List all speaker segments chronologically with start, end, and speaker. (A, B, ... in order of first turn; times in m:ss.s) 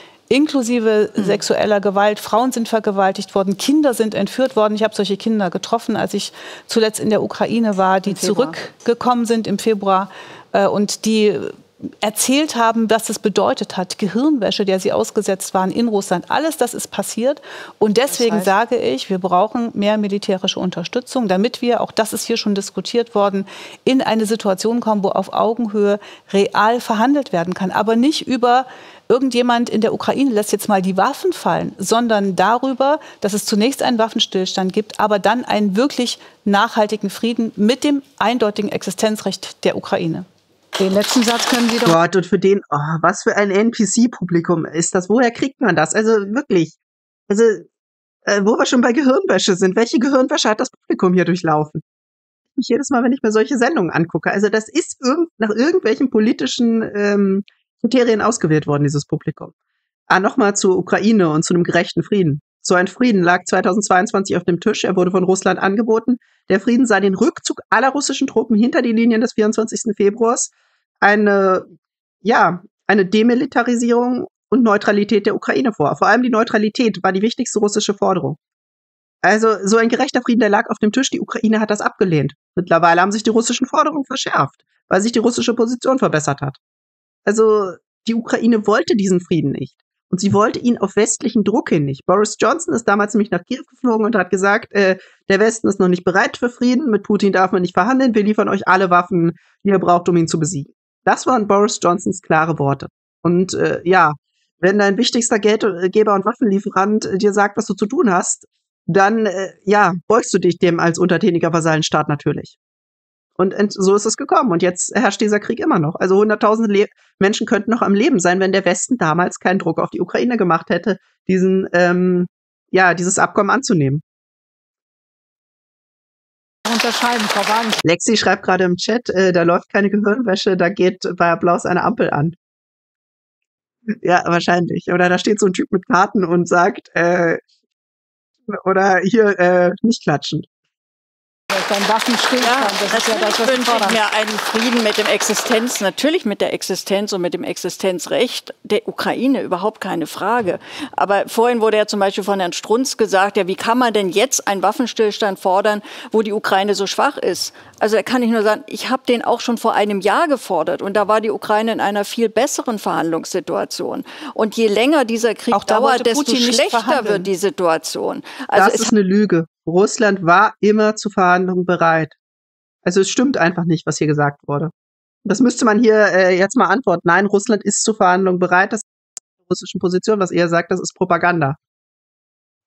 0:00.3-0:40.2 A
0:08.0-0:08.6 B
0:18.1-0:18.5 B
0:40.8-0:42.0 B
0:41.8-0:46.8 C
0:47.3-0:47.6 C
0:48.2-0:51.8 C
0:52.6-0:59.5 C
1:00.1-1:11.6 C
1:12.2-1:18.4 C
1:19.2-1:26.6 C
1:27.2-1:52.6 C
1:53.4-2:04.0 C
2:06.6-2:07.8 B
2:07.8-2:12.3 C
2:14.0-2:17.4 C
2:18.5-2:20.4 C
2:21.5-2:24.0 B
2:22.4-2:48.9 D
2:45.5-2:47.3 A
2:48.5-2:52.1 C
2:52.8-2:54.7 C
2:55.2-2:58.8 C
2:59.5-3:01.6 C